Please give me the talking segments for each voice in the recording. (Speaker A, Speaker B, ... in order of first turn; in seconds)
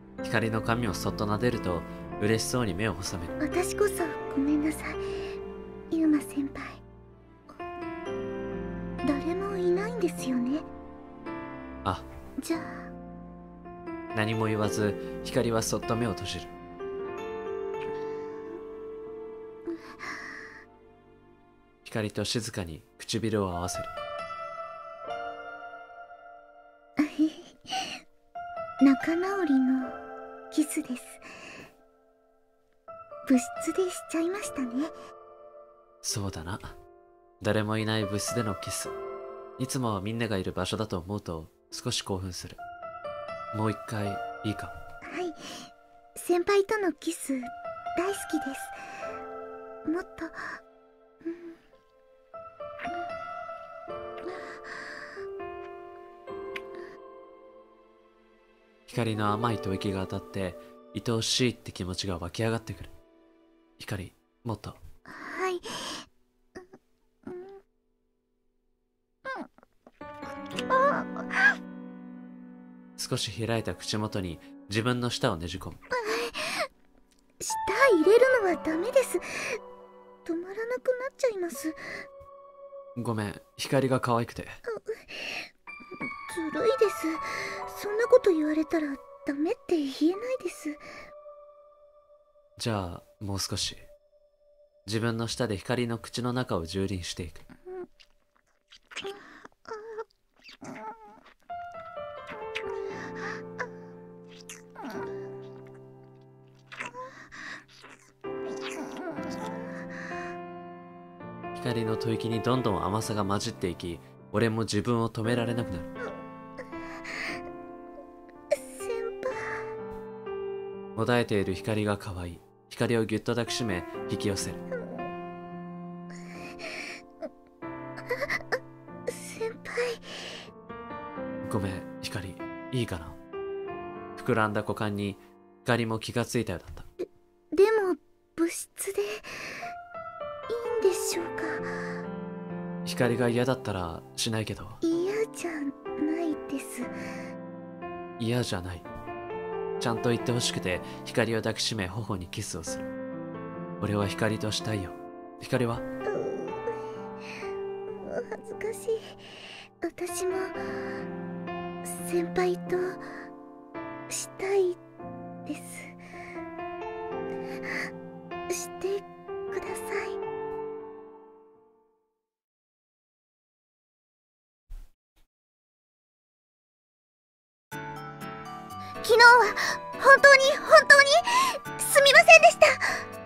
Speaker A: 0.2-3.4, 14.1-16.5, 21.9-23.9, 36.0-36.7, 37.4-38.9, 39.6-42.6, 43.5-44.7, 58.9-62.9, 63.8-64.8, 73.0-75.8, 83.0-84.6, 92.6-93.8, 94.9-97.4, 111.5-115.9, 121.0-124.6, 131.4-133.2, 134.2-136.9, 142.8-144.8, 148.2-148.9, 149.8-152.9, 153.8-155.8
Speaker B: 3.4-5.0, 5.9-6.8, 9.0-10.7, 12.4-12.9, 27.0-27.9, 28.8-30.0, 30.5-31.2, 33.3-34.9, 45.1-48.8, 49.9-50.6, 51.2-51.5, 65.1-66.0, 70.7-71.5, 75.9-76.7, 77.4-79.6, 80.2-81.8, 84.7-85.5, 86.3-90.8, 118.5-119.6, 124.8-125.1, 129.1-130.2, 137.0-139.3, 140.5-141.7, 144.8-146.9, 156.1-156.7, 157.9-159.2, 159.8-160.6, 161.8-163.0, 164.1-164.8, 165.5-165.9, 168.5-170.2, 179.0-182.8